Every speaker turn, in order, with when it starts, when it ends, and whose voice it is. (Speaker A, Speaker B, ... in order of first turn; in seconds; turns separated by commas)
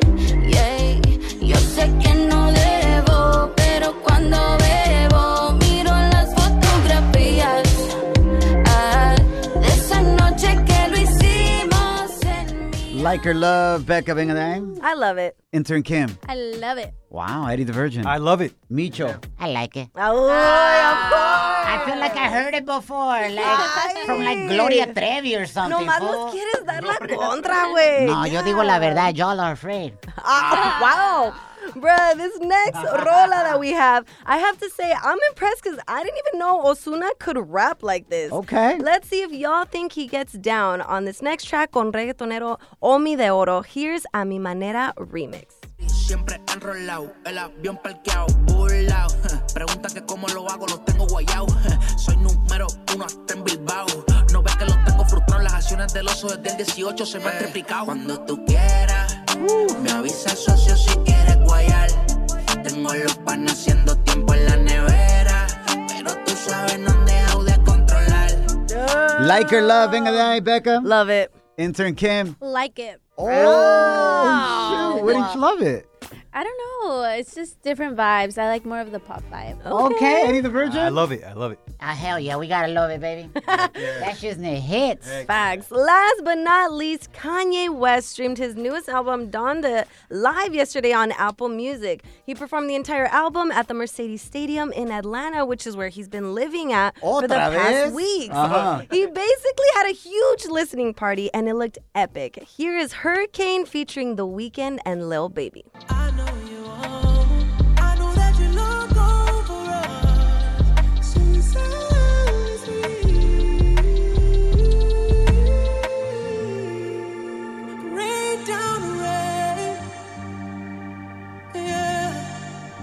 Speaker A: 0.4-7.9, Speaker A: 8.6-13.1, Speaker B: 12.9-14.8, Speaker C: 14.8-15.3, Speaker B: 15.5-16.2, Speaker D: 16.2-16.9, Speaker B: 17.1-19.2, Speaker E: 18.0-18.5, Speaker F: 19.4-19.9, Speaker C: 19.9-22.3, Speaker F: 21.6-26.4, Speaker C: 23.4-25.0, Speaker C: 25.6-29.1, Speaker F: 27.9-30.0, Speaker C: 30.2-45.6, Speaker B: 38.3-38.8, Speaker G: 45.8-62.0, Speaker B: 59.4-59.8, Speaker G: 62.6-68.5, Speaker C: 68.7-70.3, Speaker B: 69.2-70.9, Speaker C: 70.8-71.3, Speaker B: 71.6-72.4, Speaker D: 72.4-73.0, Speaker B: 73.2-75.9, Speaker C: 73.2-75.3, Speaker D: 76.3-79.6, Speaker C: 79.6-80.4, Speaker B: 79.7-81.0, Speaker E: 80.6-81.6, Speaker F: 81.8-85.2, Speaker C: 83.4-84.0, Speaker E: 85.0-85.6, Speaker C: 85.3-105.7, Speaker B: 97.0-98.8